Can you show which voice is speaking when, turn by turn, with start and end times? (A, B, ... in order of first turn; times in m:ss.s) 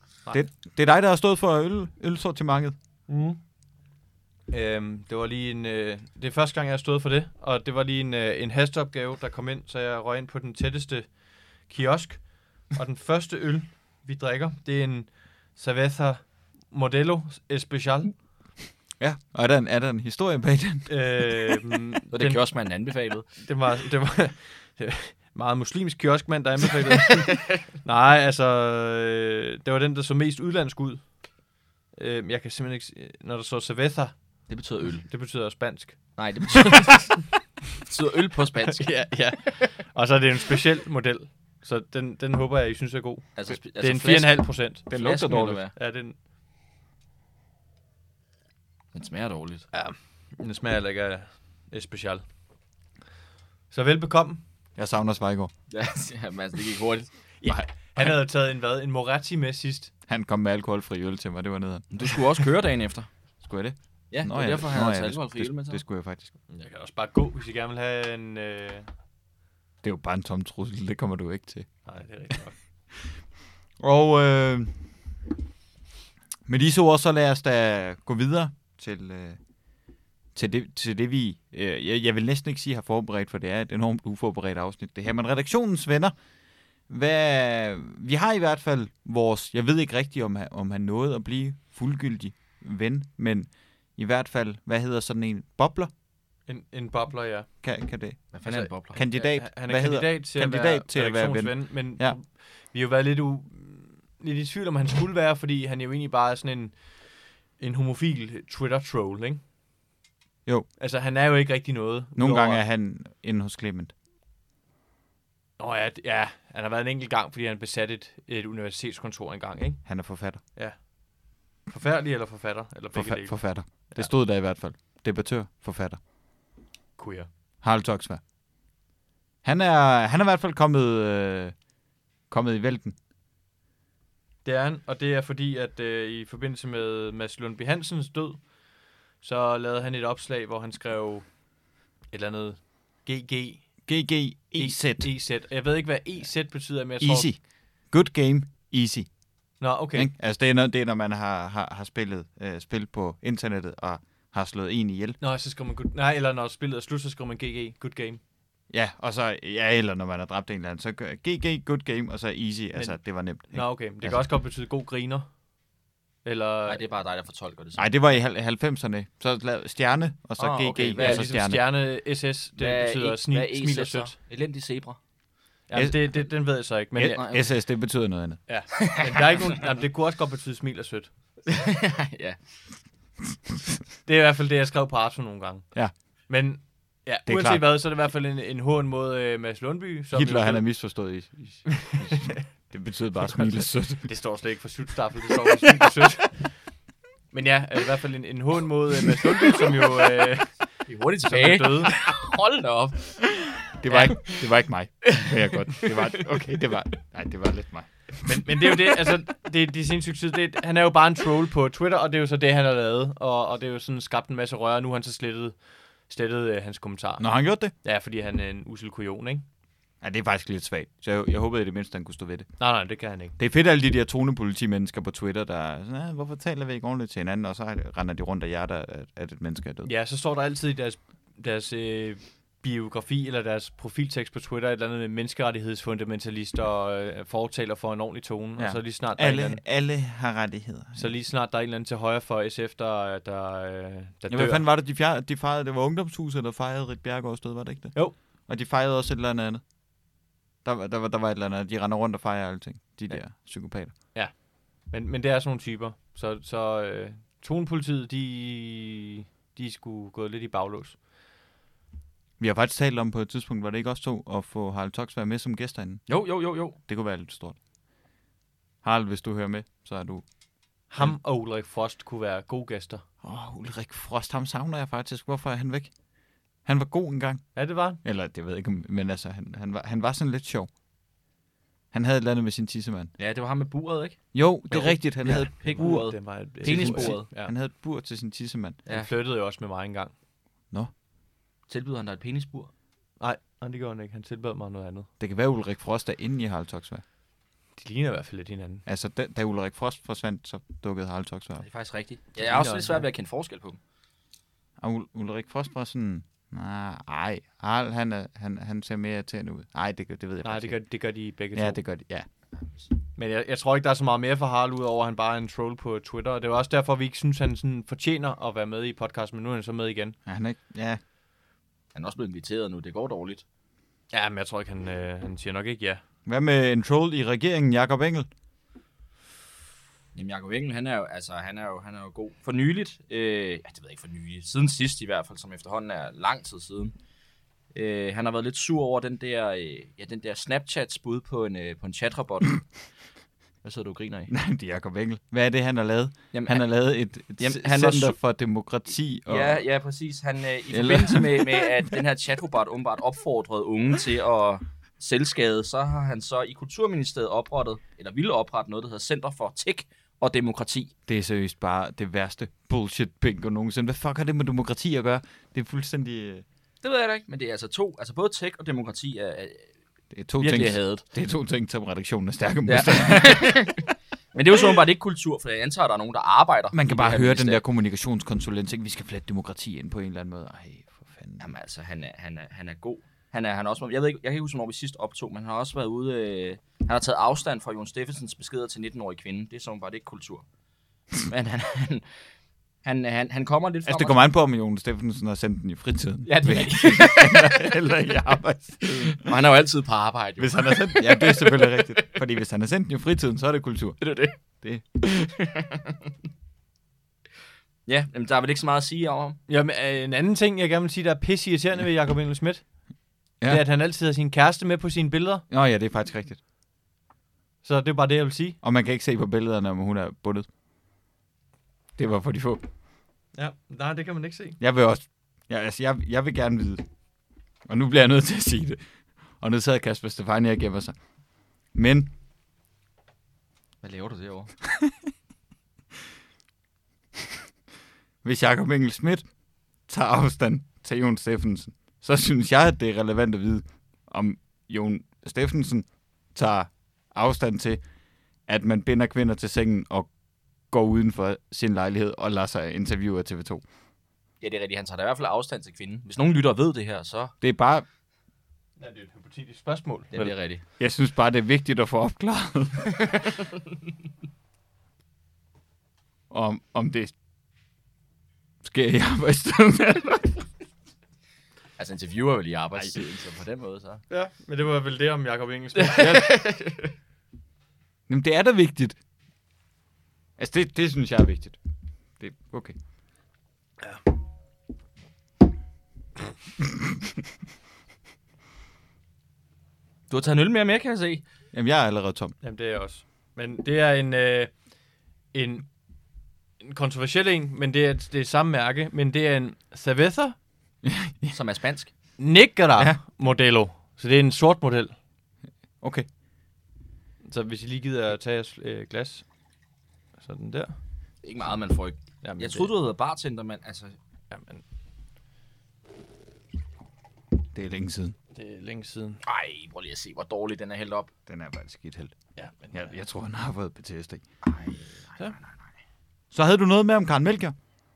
0:00.3-0:02.8 A
0:03.1-0:03.4 B
0:04.5-0:18.2 B
0:19.0-0:21.5 A
0:20.9-0:22.4 B
0:22.1-0:23.3 C
0:23.4-0:31.2 B
0:31.9-0:34.5 B
0:34.5-0:35.1 C
0:35.1-0:36.9 B
0:36.2-0:37.2 C
0:37.8-0:39.3 C
0:38.7-0:44.9 B
0:43.4-0:44.3 C
0:43.9-0:45.6 A
0:44.9-0:45.7 C
0:45.6-0:46.2 B
0:48.9-0:49.7 C
0:49.7-0:52.2 B
0:53.7-0:54.4 B
0:54.8-0:55.5 A
0:55.7-0:57.1 C
0:57.4-0:59.9 B
1:00.1-1:01.9 A
1:01.9-1:03.1 C
1:03.4-1:06.3 A
1:04.1-1:05.8 C
1:06.5-1:08.9 B
1:09.8-1:11.7 A
1:11.8-1:12.6 B
1:13.8-1:14.8 A
1:16.5-1:19.4 A
1:20.4-1:26.1 A
1:26.9-1:35.9 A
1:36.5-1:37.5 B
1:37.6-1:42.2 A
1:38.3-1:39.0 C
1:38.4-1:49.4 B
1:50.8-1:52.6 B
1:52.2-1:53.9 A
1:55.6-1:59.9 B
1:59.8-2:00.4 A
2:00.5-2:00.9 B
2:01.6-2:04.1 B
2:02.9-2:06.0 A
2:07.0-2:07.3 B
2:07.6-2:08.2 A
2:09.4-2:11.6 A
2:12.3-2:13.0 A
2:14.4-2:21.3 B
2:22.1-2:23.7 B
2:23.9-2:25.1 A
2:24.6-2:27.3 B
2:27.0-2:29.1 A
2:29.6-2:30.1 B
2:29.9-2:35.2 A
2:35.2-2:38.2 B
2:38.7-2:44.2 A
2:43.5-2:45.3 B
2:46.2-2:46.8 B
2:46.7-2:47.9 C
2:47.8-2:51.6 A
2:50.4-2:51.3 C
2:51.0-2:54.2 B
2:52.6-2:55.0 C
2:55.7-2:57.2 B
2:55.7-2:56.2 A
2:57.0-2:58.4 A
2:57.2-2:57.5 C
2:58.5-3:01.1 B
2:58.8-2:59.6 C
3:01.5-3:02.4 C
3:04.0-3:10.7 B
3:07.3-3:07.7 A
3:10.1-3:14.1 A
3:12.0-3:12.4 B
3:14.0-3:16.6 B
3:17.3-3:20.6 B
3:20.9-3:23.4 C
3:21.2-3:22.0 B
3:23.8-3:28.2 A
3:23.9-3:24.2 B
3:25.1-3:26.2 C
3:28.2-3:39.4 B
3:37.2-3:37.7 A
3:40.0-3:42.5 A
3:42.6-3:43.4 B
3:43.4-3:49.9 A
3:49.8-3:59.6 B
3:58.6-4:01.1 A
4:01.0-4:04.6 B
4:04.3-4:09.6 A
4:10.6-4:14.0 A
4:14.0-4:21.0 B
4:22.4-4:26.1 A
4:26.1-4:26.8 C
4:26.8-4:27.6 A
4:28.8-4:30.2 A
4:30.9-4:33.0 B
4:33.2-4:35.9 A
4:36.6-4:37.5 A
4:37.6-4:38.0 B
4:38.0-4:40.7 A
4:41.9-4:43.1 A
4:43.2-4:47.2 C
4:44.3-4:48.8 A
4:44.7-4:47.5 B
4:48.9-4:49.1 C
4:48.9-4:50.1 B
4:51.7-4:52.7 C
4:53.2-4:55.1 B
4:55.2-4:57.0 A
4:57.8-4:58.8 B
4:58.9-5:01.6 A
5:01.6-5:03.8 C
5:02.4-5:03.1 B
5:04.8-5:10.8 A
5:10.4-5:11.8 B
5:11.5-5:12.3 A
5:13.2-5:20.2 B
5:20.3-5:21.0 A
5:22.0-5:23.4 C
5:24.1-5:26.0 B
5:26.3-5:28.3 A
5:30.1-5:36.9 C
5:37.7-5:42.7 C
5:43.6-5:44.3 C
5:44.3-5:49.6 A
5:46.3-5:46.6 C
5:47.4-5:48.2 C
5:49.3-6:00.9 C
5:50.7-5:51.7 A
6:01.1-6:06.4 A
6:06.8-6:09.7 C
6:10.1-6:13.8 A
6:10.4-6:11.0 C
6:12.7-6:17.6 C
6:16.7-6:21.4 A
6:21.4-6:30.4 C
6:31.2-6:32.1 C
6:32.8-6:34.2 C
6:33.9-6:39.3 A
6:36.2-6:37.8 C
6:38.8-6:42.1 C
6:40.4-6:45.0 A
6:44.0-6:44.3 C
6:45.0-6:45.9 C
6:47.9-6:49.4 C
6:49.5-6:52.6 B
6:53.4-6:55.4 B
6:55.5-6:56.4 A
6:57.6-6:58.6 B
6:58.6-7:00.5 A
7:02.0-7:02.6 A
7:03.4-7:04.6 B
7:04.6-7:06.8 A
7:07.7-7:08.8 A
7:09.4-7:11.0 A
7:11.7-7:12.1 A
7:13.8-7:14.5 C
7:18.2-7:19.3 A
7:19.9-7:27.8 A
7:28.5-7:30.1 A
7:30.7-7:33.6 A
7:34.4-7:37.3 C
7:37.4-7:37.8 A
7:38.8-7:40.3 B
7:40.1-7:40.6 C
7:40.8-7:43.1 A
7:46.3-7:47.1 A
7:48.6-7:50.4 A
7:51.8-7:54.0 C
7:54.1-7:56.3 B
7:55.9-7:56.8 C
7:58.1-7:59.0 A
8:00.4-8:01.6 A
8:02.2-8:02.8 A
8:10.1-8:11.2 C
8:11.5-8:12.4 A
8:12.4-8:14.7 B
8:15.3-8:15.7 B
8:16.6-8:20.4 B
8:20.8-8:21.4 A
8:21.3-8:21.9 C
8:22.2-8:25.0 B
8:25.8-8:26.1 A
8:27.2-8:29.3 B
8:30.2-8:30.8 B
8:31.2-8:34.0 C
8:32.2-8:32.7 B
8:34.3-8:34.6 B
8:37.5-8:38.2 A
8:38.4-8:39.2 B
8:39.2-8:41.1 C
8:41.3-8:42.2 A
8:42.4-8:42.9 B
8:42.7-8:44.2 A
8:44.4-8:45.5 C
8:46.3-8:47.6 A